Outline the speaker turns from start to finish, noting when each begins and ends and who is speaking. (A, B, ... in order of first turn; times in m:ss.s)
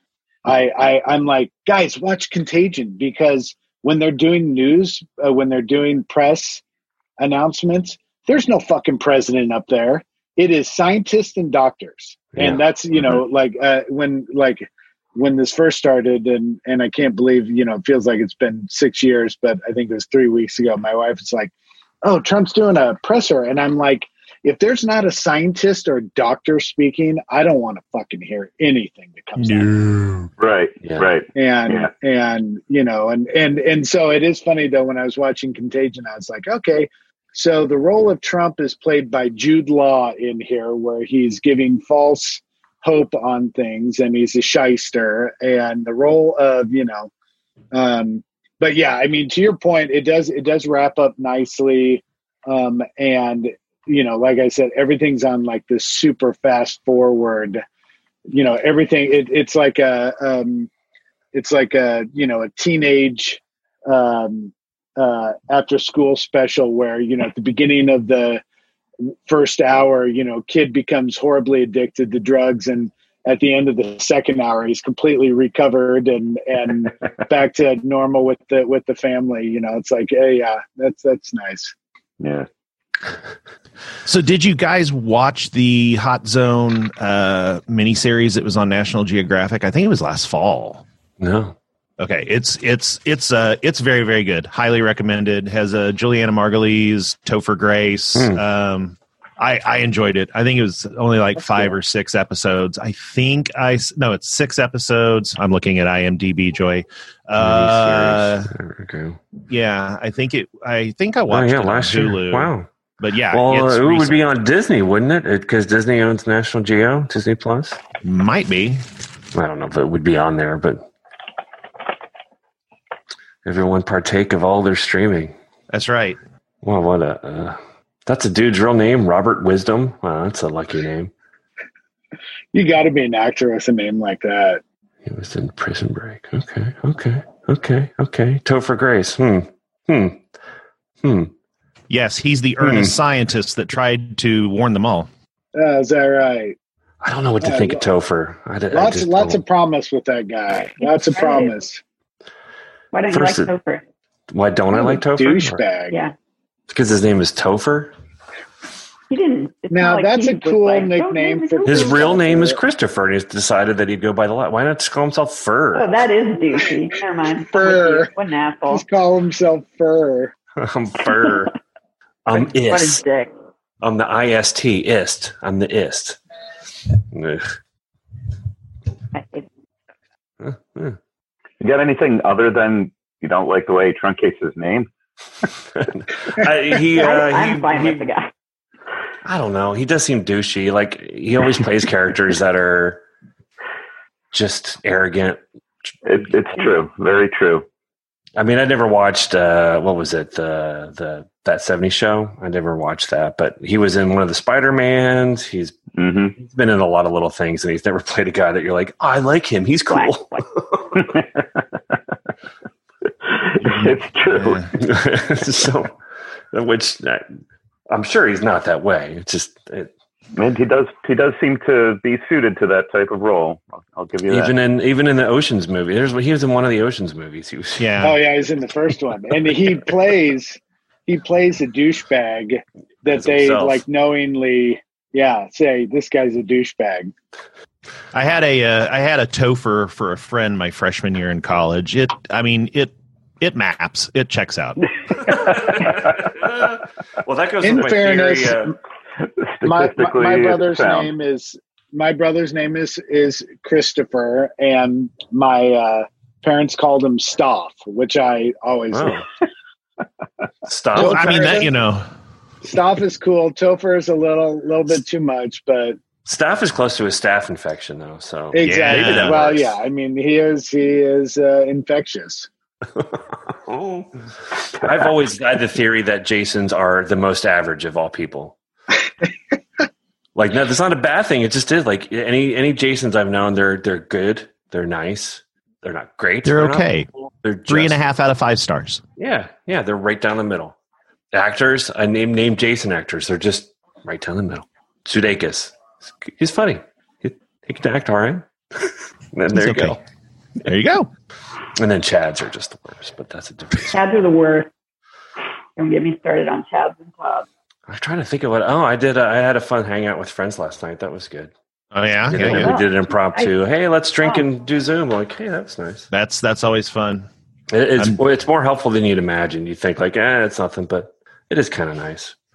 0:00.4-0:06.6 A
0:07.2-0:21.5 A
0:22.0-0:29.7 A
0:29.4-0:30.3 B
0:30.4-0:31.9 C
0:30.8-0:31.1 D
0:31.3-0:47.1 A
0:47.7-0:57.6 A
0:58.3-1:00.7 A
1:01.3-1:08.4 A
1:09.0-1:21.7 A
1:22.2-1:22.5 C
1:24.0-1:30.8 B
1:31.2-1:31.6 D
1:32.0-1:48.5 B
1:47.4-1:49.2 D
1:49.5-1:54.2 B
1:51.3-1:52.7 D
1:53.3-1:57.8 D
1:58.0-1:58.8 B
1:59.3-2:00.8 D
2:03.4-2:05.3 D
2:05.7-2:06.2 B
2:06.6-2:11.1 D
2:12.5-2:14.6 A
2:15.0-2:20.2 D
2:21.0-2:21.3 D
2:21.9-2:25.1 B
2:22.6-2:22.9 D
2:25.5-2:26.6 A
2:27.0-2:29.4 D
2:27.4-2:27.8 A
2:28.7-2:31.8 A
2:30.8-2:31.5 E
2:32.9-2:33.8 E
2:33.1-2:33.5 D
2:34.3-2:35.6 D
2:35.1-2:36.0 A
2:36.7-2:37.9 D
2:39.1-2:42.2 E
2:39.7-2:42.6 A
2:41.6-2:46.0 D
2:45.7-2:48.8 E
2:47.5-2:48.1 A
2:48.7-2:50.3 A
2:50.6-2:51.5 D
2:52.2-2:53.0 D
2:52.3-2:53.3 E
2:53.8-2:56.2 D
2:57.1-2:57.5 D
2:59.1-2:59.5 E
3:00.4-3:01.0 D
3:01.6-3:04.9 C
3:05.8-3:08.1 D
3:07.0-3:08.3 E
3:09.2-3:13.0 D
3:14.3-3:15.4 D
3:16.0-3:17.6 C
3:18.4-3:25.8 D
3:26.0-3:26.3 C
3:26.4-3:31.0 D
3:29.9-3:30.4 E
3:30.9-3:31.4 C
3:33.2-3:34.6 C
3:33.6-3:34.7 B
3:34.7-3:35.9 D
3:36.5-3:37.2 D
3:37.9-3:39.9 D
3:40.4-3:44.5 C
3:44.3-3:48.0 D
3:47.8-3:48.2 B
3:48.0-3:57.1 A
3:53.0-3:53.8 D
3:58.1-4:04.8 B
4:05.3-4:08.7 D
4:07.6-4:08.8 A
4:09.2-4:11.1 C
4:09.6-4:19.2 A
4:18.9-4:19.2 D
4:20.6-4:21.7 D
4:20.9-4:22.0 B
4:20.9-4:21.7 A
4:22.6-4:26.0 A
4:26.2-4:29.7 D
4:28.5-4:32.5 A
4:28.6-4:29.4 B
4:33.0-4:34.1 D
4:34.7-4:38.5 D
4:40.4-4:46.9 D
4:46.4-4:47.1 B
4:47.4-4:48.0 D
4:47.7-4:49.0 B
4:49.2-4:50.7 D
4:51.3-5:00.0 D
4:59.5-5:00.0 B
5:00.6-5:01.1 B
5:01.8-5:04.0 D
5:03.9-5:04.7 E
5:05.8-5:07.4 E
5:07.9-5:11.5 D
5:11.9-5:12.7 B
5:12.3-5:16.1 D
5:12.4-5:13.5 E
5:16.1-5:17.3 B
5:17.7-5:22.3 D